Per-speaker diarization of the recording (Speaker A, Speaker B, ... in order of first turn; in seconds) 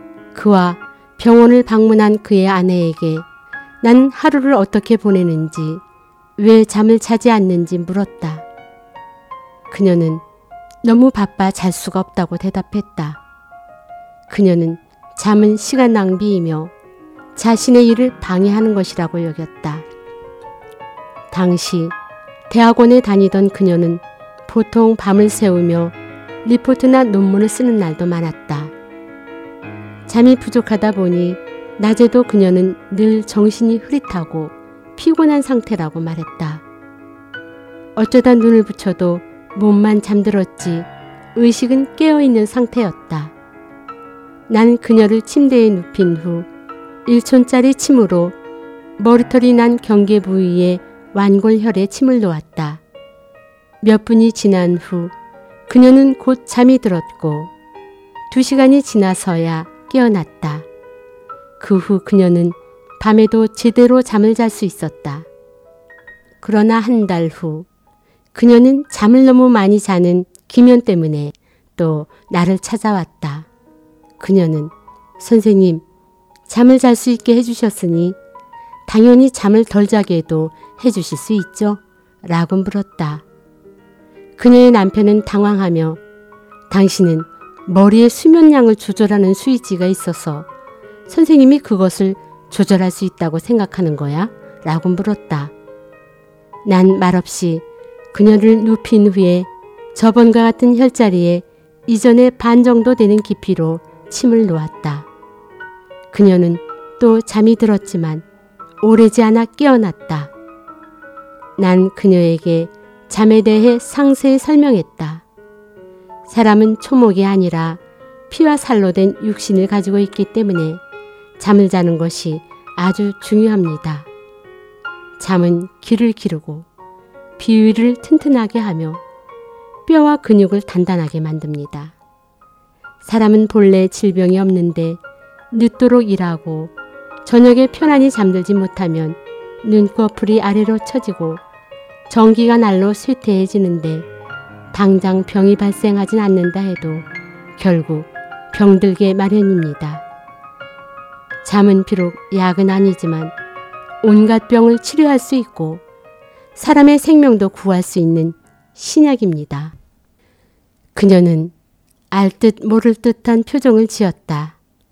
Speaker A: 0.3-3.2, 3.8-5.8, 6.4-8.4, 9.7-10.2, 10.8-13.2, 14.3-16.7, 17.4-19.9, 21.3-21.9, 22.5-28.7, 30.1-36.6, 38.0-43.3, 44.5-46.5, 47.0-48.4, 49.0-52.8, 53.8-55.1, 55.7-57.5, 58.3-60.7, 61.6-65.3, 66.4-67.7, 68.3-73.5, 74.2-75.8, 76.5-78.2, 78.9-83.2, 84.4-86.0, 86.7-90.5, 91.1-95.5, 96.6-105.1, 106.1-108.2, 108.8-110.3, 111.6-115.2, 116.3-120.8, 121.4-124.1, 125.2-126.7, 127.4-129.0, 129.8-131.9, 133.0-135.0, 135.5-136.7, 137.2-141.4, 142.1-144.1, 144.7-150.0, 151.4-153.3, 154.0-155.8, 156.5-159.7, 160.9-161.5, 162.1-164.6